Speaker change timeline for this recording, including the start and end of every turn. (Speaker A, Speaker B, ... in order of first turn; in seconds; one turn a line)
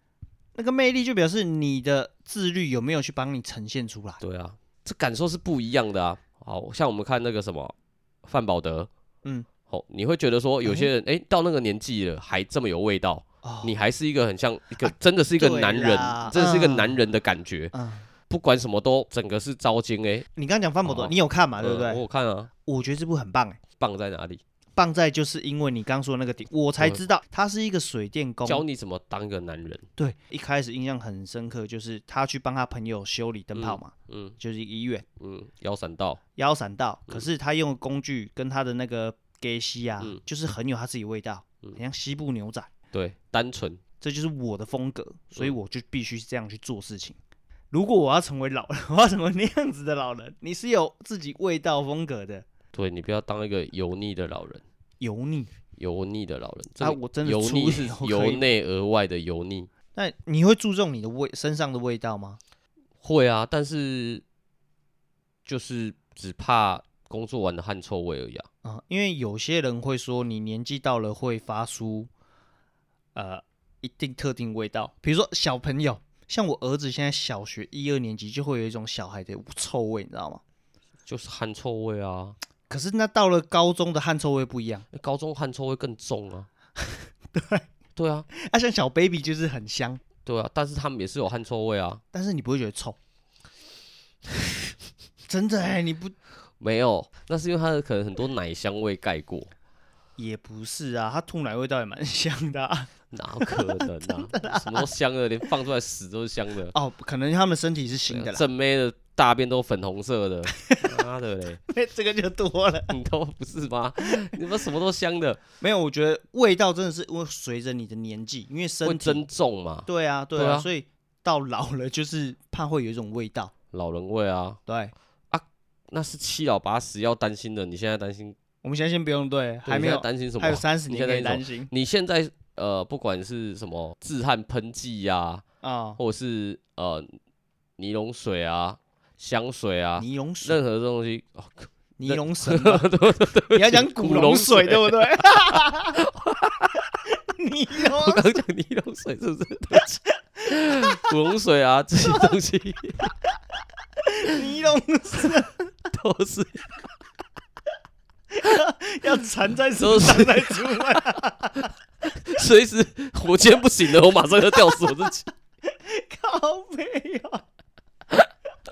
Speaker A: 0.5-4.2
Speaker B: 4.2-7.7
Speaker B: 8.2-8.9
Speaker B: 9.7-17.7
Speaker A: 10.6-10.9
Speaker A: 13.4-13.7
Speaker A: 14.8-17.0
Speaker A: 17.7-18.1
Speaker B: 18.3-20.3
Speaker A: 20.4-22.0
Speaker B: 20.8-22.5
Speaker A: 22.6-23.6
Speaker B: 23.8-24.4
Speaker A: 24.8-28.6
Speaker B: 28.4-29.9
Speaker A: 30.0-35.0
Speaker B: 33.5-34.4
Speaker B: 35.2-36.2
Speaker A: 36.4-42.7
Speaker B: 42.9-43.8
Speaker A: 44.0-47.2
Speaker A: 47.7-52.5
Speaker B: 52.7-54.6
Speaker A: 55.0-55.5
Speaker B: 55.8-59.7
Speaker A: 56.8-58.4
Speaker A: 59.9-62.4
Speaker B: 63.0-64.2
Speaker B: 65.4-68.5
Speaker A: 68.6-72.1
Speaker A: 73.1-80.4
Speaker B: 81.1-82.3
Speaker A: 82.7-84.8
Speaker B: 84.9-86.5
Speaker A: 86.8-87.7
Speaker B: 88.0-88.3
Speaker A: 88.3-90.0
Speaker B: 90.2-92.0
Speaker A: 92.1-93.0
Speaker A: 95.3-96.2
Speaker B: 96.6-99.5
Speaker A: 100.2-104.9
Speaker B: 103.1-106.7
Speaker A: 106.7-108.4
Speaker B: 108.1-111.6
Speaker A: 110.5-111.0
Speaker A: 111.7-112.9
Speaker B: 112.9-115.4
Speaker A: 115.6-119.2
Speaker B: 118.8-120.7
Speaker A: 119.8-123.5
Speaker B: 123.7-124.6
Speaker A: 124.7-124.9
Speaker B: 125.3-128.3
Speaker A: 128.6-131.7
Speaker B: 129.7-135.4
Speaker A: 135.6-136.0
Speaker B: 136.0-137.1
Speaker B: 137.8-146.8
Speaker A: 140.0-140.6
Speaker A: 142.0-142.9
Speaker A: 143.5-146.0
Speaker A: 147.1-148.3
Speaker B: 147.8-153.1
Speaker A: 150.4-151.1
Speaker A: 154.0-155.7
Speaker B: 155.9-156.7
Speaker A: 158.3-161.7
Speaker B: 159.8-165.3
Speaker A: 164.6-164.9
Speaker A: 165.6-167.4